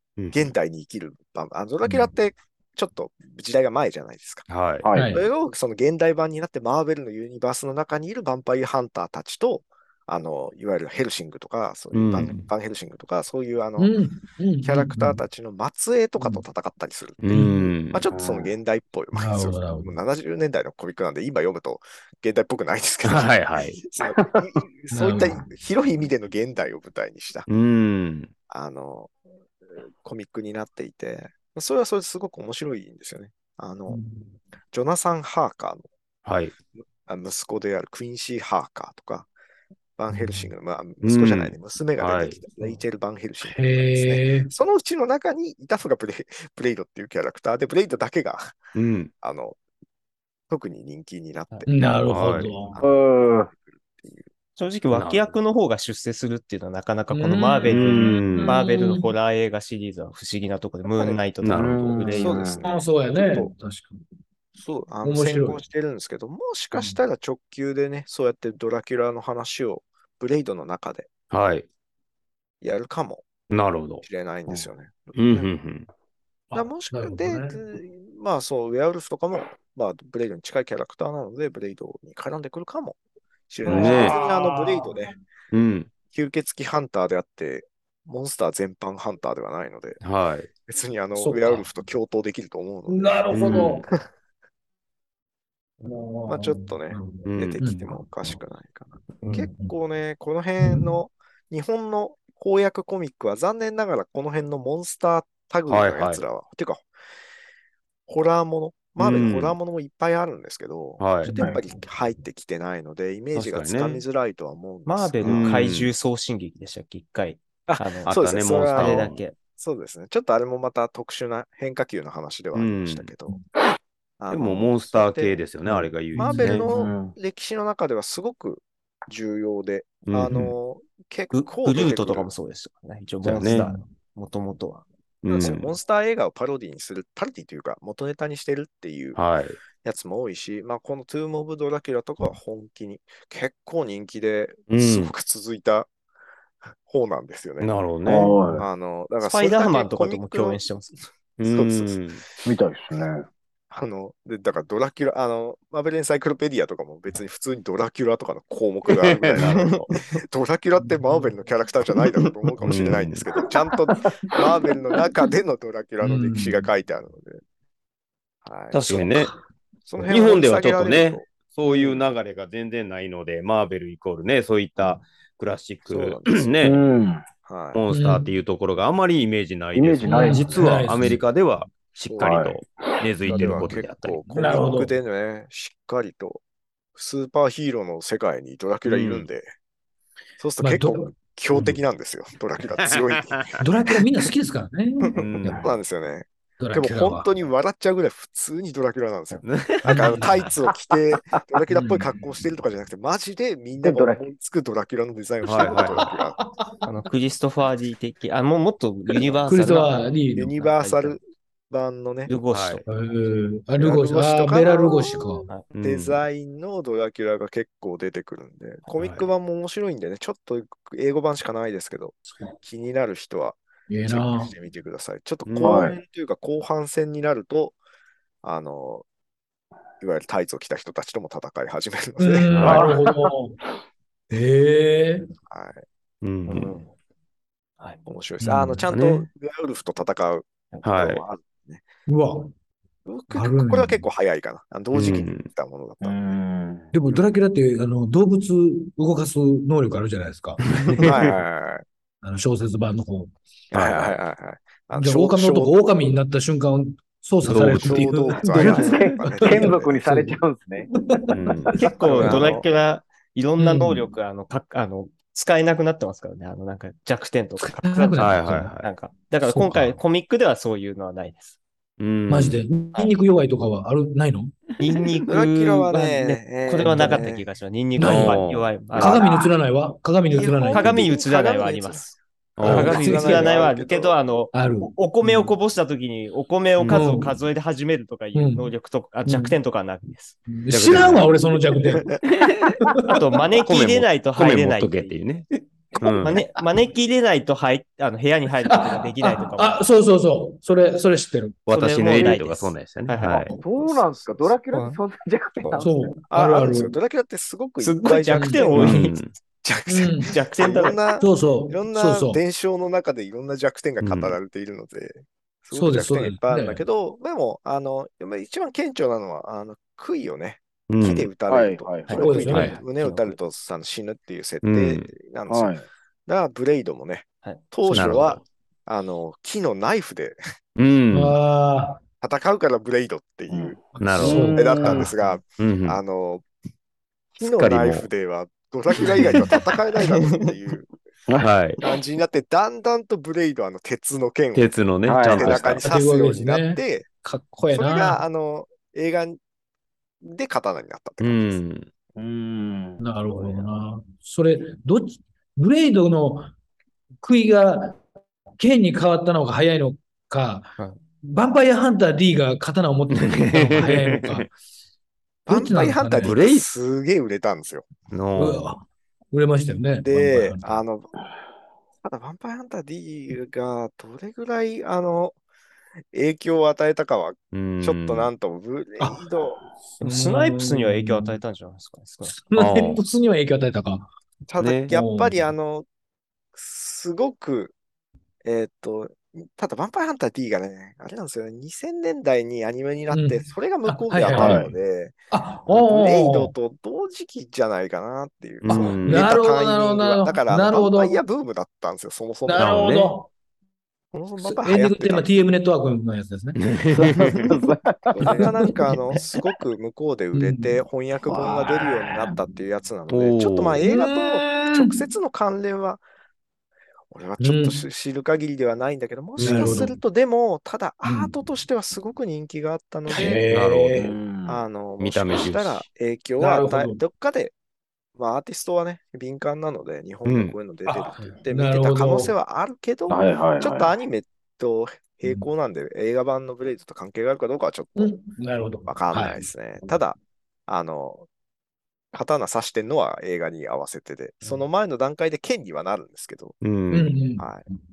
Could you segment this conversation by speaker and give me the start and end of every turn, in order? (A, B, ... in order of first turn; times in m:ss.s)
0:00.2-0:00.5 A
0:00.3-0:04.5 B
0:01.8-0:02.1 C
0:04.5-0:04.9 A
0:04.8-0:05.1 D
0:04.9-0:05.2 C
0:05.0-0:14.0 B
0:11.9-0:12.5 A
0:13.8-0:15.2 C
0:14.6-0:27.5 B
0:16.2-0:16.4 C
0:17.2-0:18.0 A
0:17.3-0:17.7 C
0:18.1-0:18.5 D
0:19.1-0:20.0 C
0:23.0-0:23.8 A
0:24.1-0:24.4 D
0:24.9-0:25.4 C
0:27.5-0:28.3 A
0:28.5-0:29.1 B
0:29.8-0:34.0 B
0:33.9-0:34.3 C
0:34.7-0:35.8 B
0:36.2-0:36.5 A
0:36.8-0:39.3 B
0:40.0-0:48.6 B
0:40.1-0:40.5 C
0:41.0-0:42.4 A
0:43.4-0:44.5 C
0:48.7-0:49.1 A
0:49.2-0:49.6 B
0:50.5-0:51.7 B
0:51.7-0:52.8 C
0:52.1-0:52.5 A
0:52.7-0:54.3 B
0:52.8-0:53.5 D
0:54.6-1:02.5 E
0:54.9-0:55.3 A
0:57.1-0:59.1 C
0:57.7-0:58.6 A
1:00.9-1:01.2 B
1:01.4-1:01.7 A
1:01.5-1:02.6 D
1:02.0-1:03.5 B
1:02.6-1:04.0 C
1:04.6-1:11.1 B
1:05.0-1:05.6 C
1:06.7-1:07.0 C
1:11.3-1:11.6 A
1:12.6-1:13.2 B
1:13.5-1:14.0 A
1:14.0-1:15.5 B
1:15.1-1:15.9 A
1:16.5-1:17.6 C
1:16.5-1:23.0 B
1:23.5-1:25.1 B
1:23.6-1:25.2 C
1:23.7-1:24.2 A
1:25.5-1:25.9 A
1:26.1-1:30.0 B
1:30.0-1:30.5 A
1:30.7-1:34.0 B
1:31.1-1:31.7 C
1:32.8-1:33.8 C
1:33.3-1:33.8 A
1:35.8-1:38.4 C
1:36.2-1:46.9 B
1:37.2-1:37.6 A
1:39.2-1:39.7 C
1:40.6-1:40.9 C
1:45.7-1:46.2 A
1:48.1-1:55.7 B
1:49.0-1:49.6 A
1:51.0-1:51.3 A
1:51.2-1:51.7 C
1:51.3-1:51.6 D
1:53.3-1:54.0 A
1:54.8-1:59.4 E
1:55.2-1:55.9 A
1:57.7-2:03.4 B
1:58.0-1:59.2 A
2:02.5-2:03.1 A
2:04.2-2:05.4 B
2:04.3-2:06.7 A
2:06.1-2:06.7 C
2:06.1-2:12.3 B
2:06.7-2:07.2 D
2:10.1-2:10.5 A
2:11.3-2:14.8 E
2:13.2-2:13.7 A
2:13.5-2:13.8 C
2:15.2-2:15.7 A
2:15.3-2:19.2 B
2:19.1-2:19.6 A
2:19.8-2:25.9 B
2:24.7-2:25.1 A
2:26.8-2:30.6 B
2:27.6-2:28.6 A
2:28.0-2:28.7 D
2:29.2-2:31.0 E
2:31.4-2:32.2 A
2:31.4-2:32.4 B
2:32.4-2:33.3 D
2:33.7-2:47.4 B
2:39.0-2:39.7 A
2:39.4-2:39.9 E
2:40.8-2:41.3 C
2:42.6-2:43.2 A
2:46.0-2:46.7 C
2:48.4-2:49.3 B
2:48.7-2:49.3 A
2:49.8-2:52.1 B
2:50.0-2:56.8 A
2:55.8-2:56.5 B
2:56.6-2:57.2 D
2:57.4-2:57.8 B
2:57.7-3:04.2 A
2:57.9-2:58.3 C
2:59.7-3:01.2 D
3:00.0-3:01.2 C
3:02.1-3:02.4 B
3:02.2-3:03.0 D
3:03.2-3:06.4 B
3:03.2-3:03.8 C
3:04.3-3:04.9 C
3:06.9-3:09.5 B
3:08.8-3:09.3 A
3:10.4-3:13.7 B
3:10.6-3:11.8 C
3:12.8-3:13.6 A
3:13.6-3:15.6 C
3:15.0-3:26.4 B
3:15.1-3:15.6 A
3:15.4-3:15.7 D
3:16.6-3:17.3 C
3:19.4-3:20.4 A
3:19.8-3:20.5 C
3:21.7-3:22.1 C
3:23.8-3:24.3 D
3:25.4-3:26.0 A
3:25.6-3:26.7 C
3:26.8-3:31.2 E
3:29.5-3:30.5 C
3:30.3-3:32.3 B
3:32.3-3:32.8 E
3:32.5-3:32.8 A
3:32.8-3:35.5 C
3:33.8-3:47.8 B
3:35.7-3:36.2 A
3:39.0-3:39.3 A
3:43.9-3:44.5 C
3:45.4-3:45.9 A
3:45.6-3:46.0 D
3:48.4-3:49.0 B
3:50.0-3:52.9 B
3:52.2-3:53.6 C
3:52.5-3:52.9 A
3:52.6-3:53.3 D
3:54.3-3:55.3 C
3:55.5-3:55.8 B
3:56.2-3:56.7 A
3:56.5-3:56.9 E
3:56.6-3:56.8 B
3:58.0-4:01.8 B
3:58.4-3:58.8 C
3:58.9-3:59.3 A
4:00.8-4:01.2 A
4:02.1-4:02.5 C
4:03.0-4:06.3 B
4:03.3-4:04.0 C
4:04.9-4:05.4 A
4:06.0-4:06.9 D
4:06.9-4:11.0 C
4:10.8-4:11.3 A
4:11.0-4:11.8 B
4:12.2-4:13.3 C
4:13.7-4:15.8 B
4:13.7-4:14.2 A
4:14.9-4:20.4 C
4:17.4-4:18.1 A
4:17.5-4:20.0 B
4:18.6-4:21.9 D
4:20.9-4:21.3 C
4:21.3-4:22.4 A
4:21.8-4:31.6 E
4:22.0-4:22.7 B
4:23.6-4:24.1 C
4:27.6-4:28.6 C
4:28.2-4:28.9 A
4:29.4-4:30.0 C
4:32.0-4:32.7 A
4:32.3-4:34.6 C
4:34.8-4:39.5 E
4:35.3-4:37.4 B
4:38.0-4:38.4 C
4:38.0-4:39.1 A
4:38.9-4:41.0 C
4:40.3-4:42.1 B
4:40.7-4:50.4 E
4:42.6-4:43.1 A
4:42.6-4:43.6 C
4:42.7-4:44.2 B
4:44.5-4:45.5 C
4:46.8-4:47.0 A
4:46.9-4:47.4 C
4:48.3-4:48.7 C
4:49.2-4:49.6 C
4:50.5-4:52.2 C
4:50.7-4:51.3 A
4:52.2-4:52.8 A
4:52.8-4:53.1 C
4:53.1-4:55.2 E
4:53.6-4:55.5 A
4:56.0-4:56.4 A
4:56.2-4:59.8 E
4:58.6-5:01.6 C
5:01.6-5:03.5 A
5:01.7-5:03.6 E
5:03.6-5:06.2 D
5:03.6-5:04.5 B
5:04.7-5:05.0 E
5:05.8-5:07.0 C
5:06.3-5:09.0 B
5:07.8-5:09.2 E
5:08.3-5:09.1 C
5:08.8-5:09.3 A
5:09.6-5:25.7 B
5:09.9-5:10.3 C
5:10.2-5:11.0 E
5:11.2-5:12.4 C
5:14.0-5:14.4 A
5:15.7-5:16.8 C
5:20.9-5:21.3 A
5:21.5-5:22.6 D
5:22.1-5:22.8 C
5:22.5-5:22.8 A
5:22.9-5:23.4 E
5:24.6-5:25.1 A
5:25.5-5:25.9 D
5:26.2-5:30.4 B
5:27.8-5:28.1 C
5:27.9-5:28.4 A
5:30.8-5:31.4 A
5:31.1-5:32.0 C
5:32.2-5:33.8 B
5:33.5-5:35.1 D
5:33.9-5:35.1 C
5:34.0-5:34.6 A
5:34.6-5:36.4 B
5:35.6-5:36.0 A
5:37.3-5:40.9 B
5:37.4-5:38.1 A
5:41.4-5:41.8 A
5:41.8-5:44.7 B
5:44.5-5:45.9 A
5:45.1-5:45.8 D
5:45.2-5:47.0 B
5:45.8-5:48.2 C
5:47.7-5:49.4 B
5:50.2-5:51.6 B
5:51.2-5:51.9 A
5:52.2-5:53.7 D
5:53.0-5:56.5 C
5:57.2-5:58.0 C
5:58.6-6:04.5 C
6:03.1-6:04.4 A
6:05.4-6:07.8 B
6:05.5-6:06.4 C
6:06.2-6:06.7 A
6:08.1-6:08.7 A
6:08.4-6:10.8 C
6:10.0-6:11.1 B
6:12.0-6:15.4 B
6:16.1-6:19.6 B
6:17.5-6:18.3 A
6:19.0-6:19.2 C
6:20.0-6:21.4 C
6:20.0-6:22.4 E
6:22.2-6:24.1 C
6:22.5-6:23.0 A
6:24.5-6:25.8 B
6:24.6-6:24.9 A
6:24.9-6:25.5 C
6:26.5-6:27.7 B
6:28.4-6:42.8 B
6:33.1-6:34.7 C
6:34.3-6:34.7 D
6:35.3-6:36.5 C
6:38.6-6:39.3 A
6:38.7-6:41.2 C
6:42.4-6:43.3 C
6:42.5-6:43.2 A
6:44.1-6:45.3 B
6:44.4-6:46.6 C
6:46.6-6:47.5 A
6:46.9-6:48.5 D
6:48.2-6:56.0 B
6:48.2-6:49.3 C
6:50.3-6:50.8 C
6:51.2-6:52.4 D
6:53.1-6:53.8 A
6:53.8-6:55.0 C
6:57.1-7:03.4 B
6:57.4-6:57.9 C
6:59.4-6:59.9 A
6:59.4-7:00.0 C
7:01.0-7:01.3 C
7:03.0-7:04.1 C
7:03.5-7:04.1 A
7:03.9-7:04.6 D
7:04.4-7:07.5 B
7:05.0-7:05.8 A
7:06.4-7:07.0 C
7:08.1-7:18.2 B
7:10.2-7:10.6 A
7:10.8-7:12.3 C
7:13.1-7:14.0 D
7:17.9-7:19.5 C
7:18.9-7:21.3 B
7:22.1-7:26.6 B
7:26.6-7:27.2 A
7:26.9-7:27.8 C
7:27.4-7:27.6 B